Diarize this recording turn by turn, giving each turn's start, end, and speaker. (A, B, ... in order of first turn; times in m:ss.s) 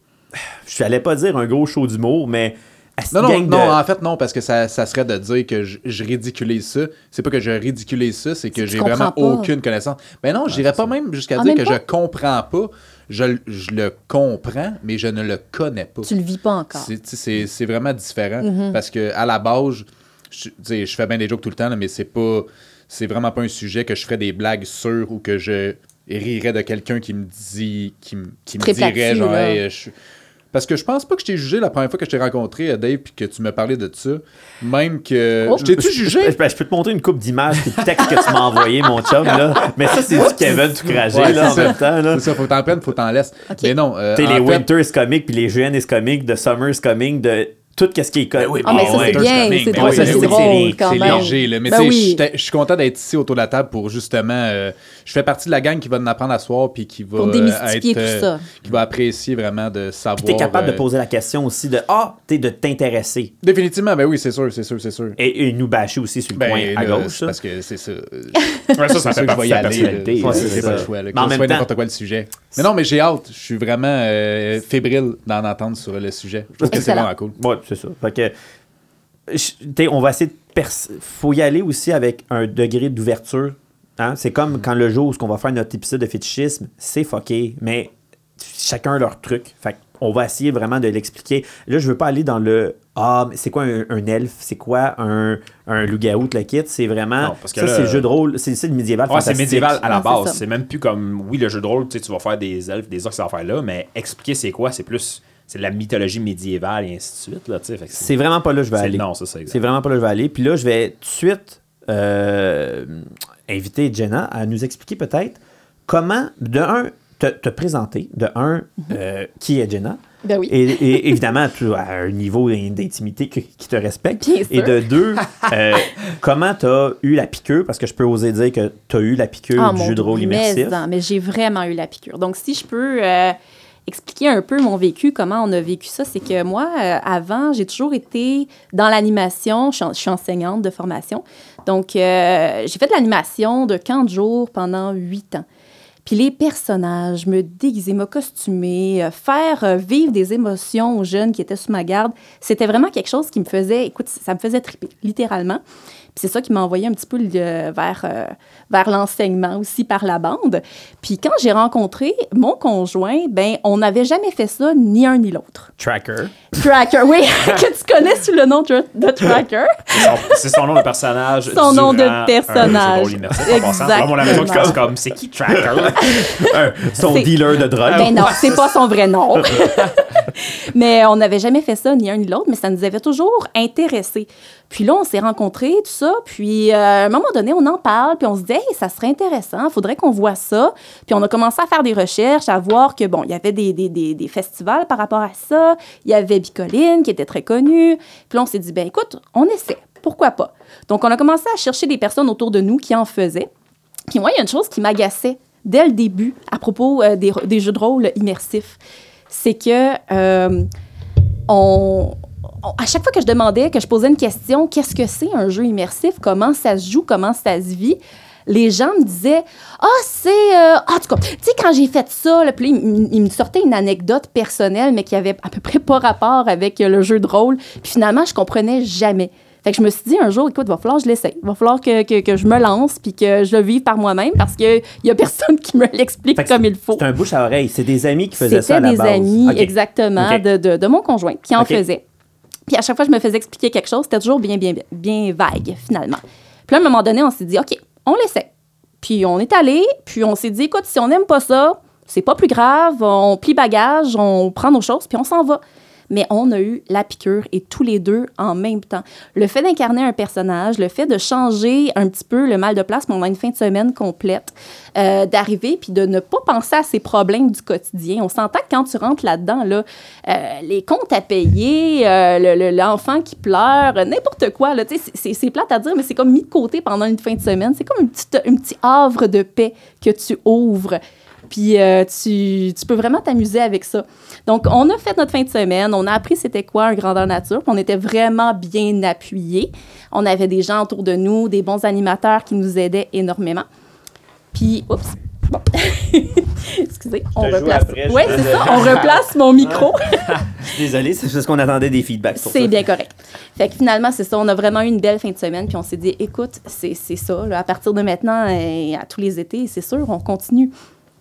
0:00.3-0:03.8 A
0:03.1-0:16.1 B
0:08.6-0:09.5 C
0:11.4-0:11.8 C
0:16.0-0:16.9 C
0:16.8-0:29.9 B
0:18.4-0:18.8 C
0:28.6-0:29.6 C
0:30.5-0:36.4 B
0:35.6-0:42.3 A
0:40.9-0:44.6 B
0:44.1-0:51.3 A
0:48.4-1:00.8 B
0:48.6-0:52.2 C
0:57.2-0:58.4 C
1:00.2-1:03.3 A
1:03.4-1:05.2 B
1:05.2-1:07.4 A
1:06.4-1:17.4 B
1:08.7-1:10.9 D
1:09.7-1:11.7 A
1:16.6-1:18.3 A
1:16.7-1:17.1 C
1:19.3-1:39.8 A
1:37.2-1:38.1 D
1:39.1-1:48.1 D
1:39.9-1:40.4 C
1:48.0-2:10.8 A
1:48.8-1:49.6 D
2:00.2-2:01.2 C
2:04.2-2:04.8 C
2:09.6-2:25.4 C
2:26.0-2:35.6 C
2:36.1-2:45.7 C
2:45.8-2:46.5 A
2:46.5-2:50.1 C
2:49.9-2:56.2 D
2:51.5-2:54.8 C
2:54.0-2:54.8 A
2:55.5-2:58.5 A
2:56.0-2:56.5 C
2:57.0-2:57.3 C
2:57.9-3:23.5 C
2:57.9-2:58.6 D
3:24.1-3:28.8 C
3:29.3-3:30.7 C
3:31.5-3:57.0 C
3:56.4-4:00.4 A
3:58.4-4:02.0 C
4:01.6-4:01.8 A
4:02.7-4:08.5 C
4:09.0-4:41.0 C
4:41.5-4:53.6 C
4:54.5-5:00.6 C
4:57.4-4:59.9 A
5:00.6-5:02.8 A
5:02.4-5:10.7 C